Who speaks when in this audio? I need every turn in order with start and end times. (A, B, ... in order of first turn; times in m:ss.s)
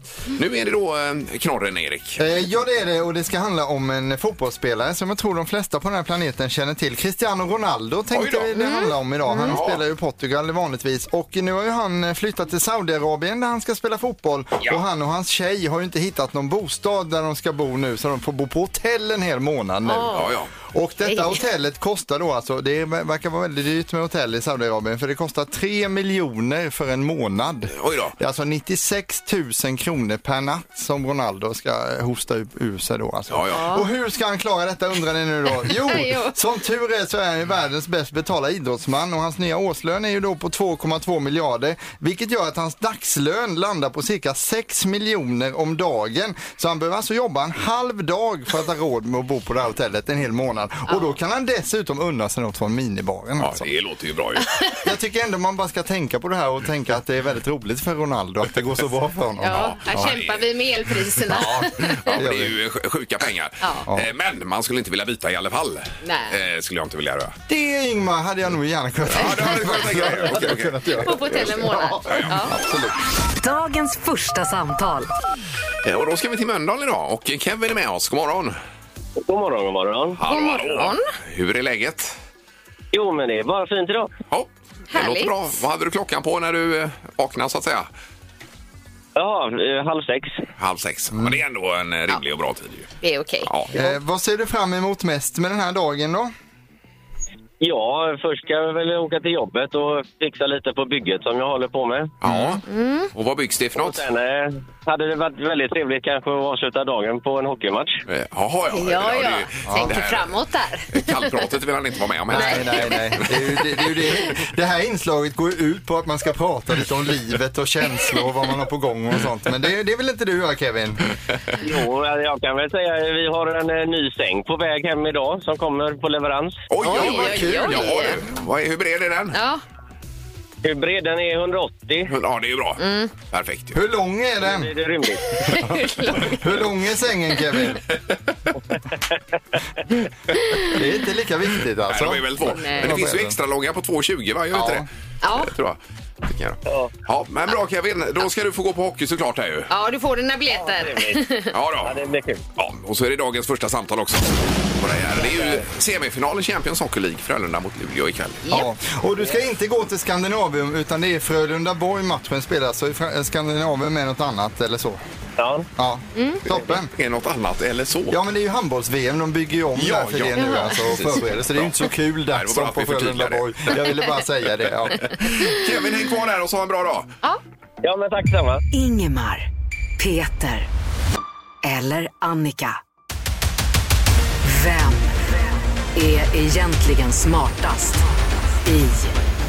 0:00.3-0:02.2 A
0:02.2-0:53.7 B
0:08.1-0:08.5 A
0:08.5-0:09.6 C
0:09.4-0:09.8 A
0:19.8-0:20.3 C
0:20.1-0:20.5 A
0:21.0-0:21.4 C
0:27.7-0:28.1 A
0:33.3-0:33.6 A
0:33.5-0:33.8 C
0:35.5-0:36.4 C
0:53.4-0:54.7 A
0:54.8-1:00.1 B
0:59.4-1:02.2 C
0:59.5-1:00.4 A
1:01.3-1:02.5 B
1:02.0-1:07.4 A
1:03.6-1:03.9 C
1:06.0-1:06.3 C
1:07.5-1:13.0 B
1:09.1-1:10.7 A
1:11.0-1:12.5 C
1:12.1-1:12.3 A
1:13.3-1:15.1 D
1:15.8-1:18.6 A
1:19.2-1:20.2 E
1:20.2-1:22.2 A
1:20.3-1:21.1 C
1:22.9-1:24.1 E
1:24.3-1:27.9 A
1:24.9-1:25.6 C
1:29.2-1:30.4 E
1:30.6-1:32.9 A
1:31.1-1:31.4 B
1:33.0-1:33.5 C
1:33.4-1:33.8 A
1:33.7-1:36.3 B
1:37.6-1:42.1 E
1:42.2-1:42.6 A
1:42.3-1:42.6 B
1:42.6-1:43.1 C
1:43.1-1:44.0 A
1:43.7-1:48.0 E
1:48.1-1:53.0 A
1:48.7-1:51.4 C
1:49.6-1:50.0 B
1:52.3-2:01.0 B
1:52.3-1:53.3 C
2:01.6-2:06.6 E
2:06.7-2:09.4 A
2:06.8-2:08.2 C
2:06.8-2:08.1 B
2:09.3-2:09.6 C
2:10.6-2:12.1 E
2:12.1-2:13.8 A
2:12.8-2:13.1 C
2:13.7-2:14.7 B
2:14.4-2:15.4 E
2:15.4-2:16.4 C
2:15.6-2:17.8 B
2:20.3-2:20.7 C
2:20.7-2:23.4 B
2:21.9-2:24.9 A
2:22.4-2:23.0 C
2:24.5-2:24.9 B
2:25.2-2:25.5 C
2:25.4-2:29.7 A
2:26.6-2:26.9 E
2:29.7-2:31.5 C
2:30.5-2:31.2 E
2:31.5-2:32.0 A
2:31.8-2:32.4 E
2:32.5-2:38.4 A
2:35.1-2:35.6 E
2:38.5-2:45.0 B
2:45.4-2:45.7 E
2:45.8-2:46.9 B
2:46.1-2:46.4 C
2:46.8-2:48.2 A
2:48.1-2:55.2 B
2:49.8-2:51.8 A
2:50.4-2:50.7 C
2:52.3-2:53.8 A
2:55.0-2:57.1 A
2:55.3-2:55.6 C
2:57.8-2:58.6 E
2:58.7-2:59.5 D
3:00.0-3:00.7 D
3:01.6-3:02.8 D
3:04.4-3:05.4 D
3:05.9-3:09.2 D